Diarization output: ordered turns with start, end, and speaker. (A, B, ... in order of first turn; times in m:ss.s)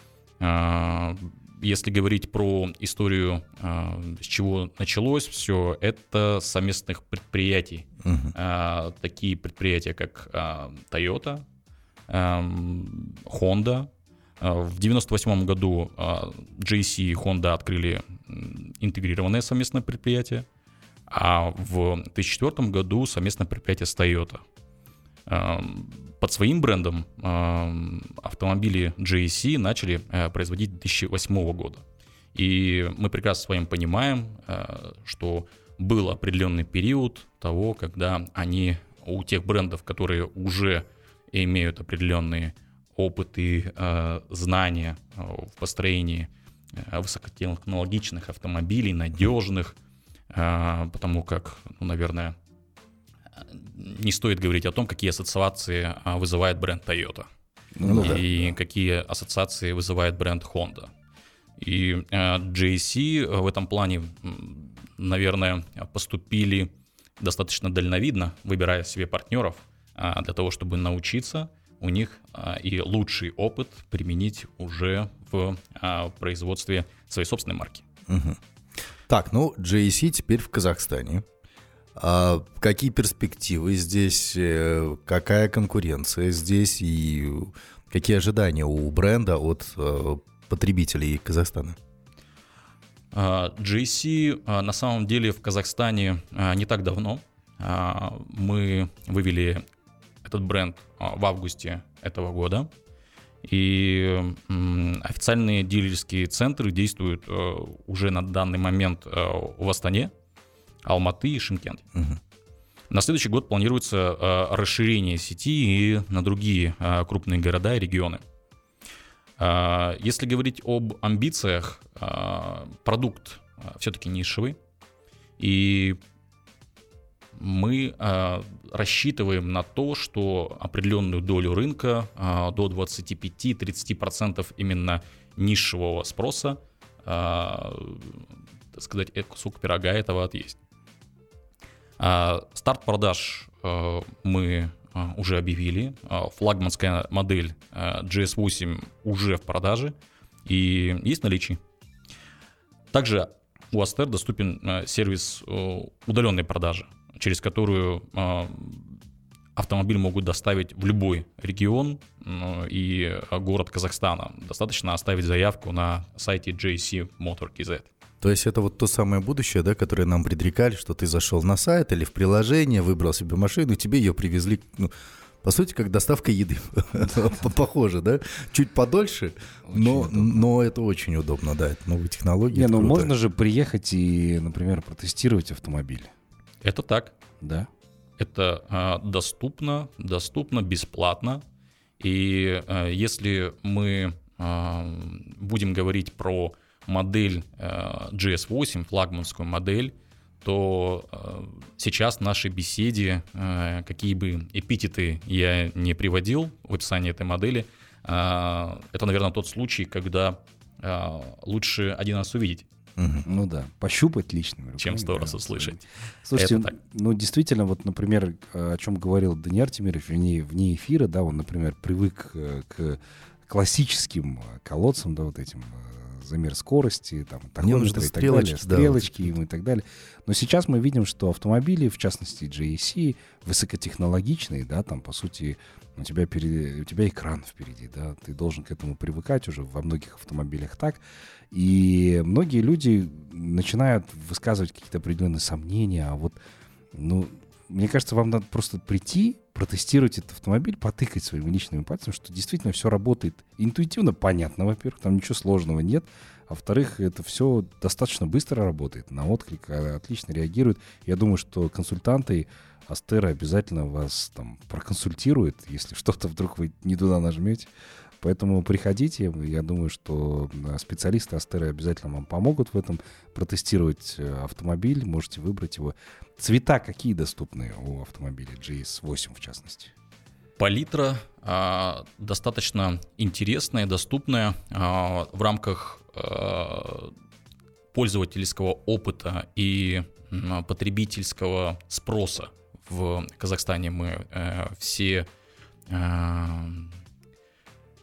0:00.4-0:11.4 A
0:08.0-0:08.3 B
0:12.1-0:20.5 A
0:21.1-0:24.4 A
0:25.3-0:49.8 A
0:50.3-0:52.4 A
0:53.4-0:57.3 A
0:57.8-0:58.3 C
0:57.8-0:58.2 B
0:57.9-1:00.9 A
1:01.6-1:17.8 A
1:18.1-1:18.4 B
1:19.1-1:21.2 B
1:22.0-1:31.8 B
1:33.1-1:39.6 A
1:40.2-1:42.7 A
1:43.4-1:50.1 A
1:50.8-1:51.9 A
1:52.9-1:58.2 A
1:59.4-2:04.6 A
2:05.4-2:06.0 A
2:07.4-2:20.6 A
2:22.0-2:29.9 A
2:30.5-2:31.6 A
2:32.9-2:39.0 A
2:39.6-2:47.9 A
2:48.2-2:54.9 B
2:55.4-3:03.1 B
2:59.7-3:00.4 C
3:02.5-3:06.1 C
3:06.6-3:07.1 A
3:07.4-3:07.7 C
3:08.2-3:11.4 A
3:12.0-3:32.7 A
3:33.0-3:33.3 B
3:33.2-4:06.4 C
3:34.8-3:35.8 A
3:36.4-3:36.8 A
3:47.6-3:49.3 B
4:06.9-4:27.7 C
4:28.2-4:39.9 C
4:40.6-4:47.1 A
4:47.9-4:55.3 A
4:55.9-4:56.9 A